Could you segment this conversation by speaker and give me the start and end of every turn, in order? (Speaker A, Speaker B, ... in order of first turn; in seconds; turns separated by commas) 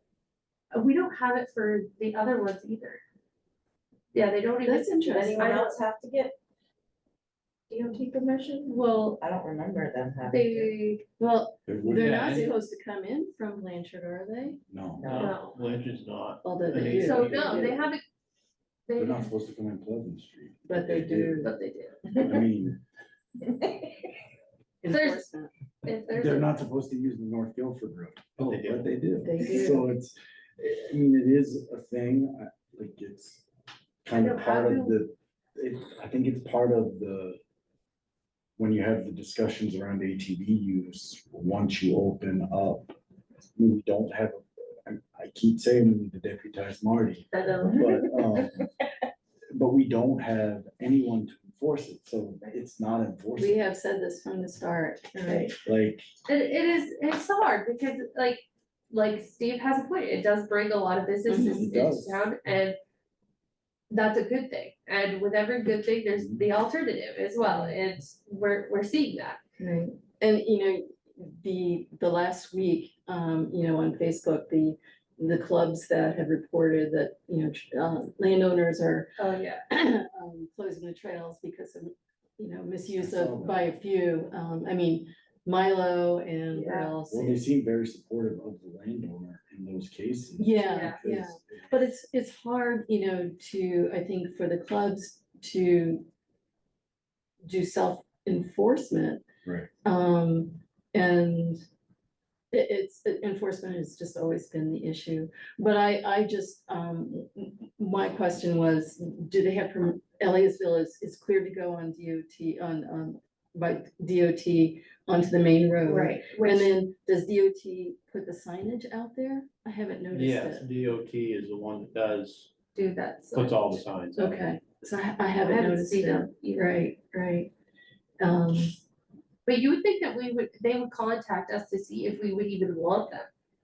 Speaker A: 0.7-3.0, Speaker A: 4.1-5.8, Speaker B: 4.6-5.5, Speaker C: 5.1-6.4, Speaker C: 7.7-10.8, Speaker A: 8.7-9.2, Speaker A: 10.3-11.0, Speaker B: 11.2-14.6, Speaker D: 11.7-12.5, Speaker E: 11.9-12.5, Speaker D: 14.7-15.1, Speaker C: 15.0-15.4, Speaker E: 15.1-17.8, Speaker A: 15.2-15.6, Speaker B: 16.4-17.9, Speaker A: 17.0-18.0, Speaker A: 18.9-19.3, Speaker D: 19.0-21.5, Speaker B: 20.7-21.5, Speaker A: 21.4-22.0, Speaker D: 22.1-22.8, Speaker C: 23.5-23.9, Speaker B: 24.8-25.5, Speaker A: 24.9-25.2, Speaker A: 25.9-26.5, Speaker D: 26.1-33.5, Speaker E: 28.4-28.9, Speaker B: 29.2-29.9, Speaker D: 34.0-37.4, Speaker A: 34.1-35.0, Speaker D: 38.6-43.0, Speaker D: 43.6-48.7, Speaker A: 47.3-47.9, Speaker C: 47.6-48.0, Speaker D: 49.5-53.6, Speaker B: 53.4-55.5, Speaker C: 55.3-55.5, Speaker D: 55.6-56.1, Speaker A: 56.3-62.8, Speaker B: 61.3-61.7, Speaker D: 61.5-62.3, Speaker A: 63.9-69.4, Speaker D: 66.1-66.5, Speaker B: 67.4-67.8, Speaker B: 69.6-79.1, Speaker A: 79.2-79.6, Speaker B: 79.7-87.4, Speaker D: 83.0-83.7, Speaker A: 86.5-86.9, Speaker D: 87.1-91.9, Speaker B: 90.4-96.0, Speaker A: 90.7-91.0, Speaker B: 97.5-99.2, Speaker D: 99.5-99.7, Speaker B: 99.8-101.6, Speaker B: 102.5-120.7, Speaker A: 115.8-116.7, Speaker E: 120.1-122.5, Speaker A: 122.8-123.8, Speaker E: 123.3-124.4, Speaker B: 124.2-127.5, Speaker A: 125.4-126.8, Speaker B: 128.2-128.8, Speaker A: 129.5-133.3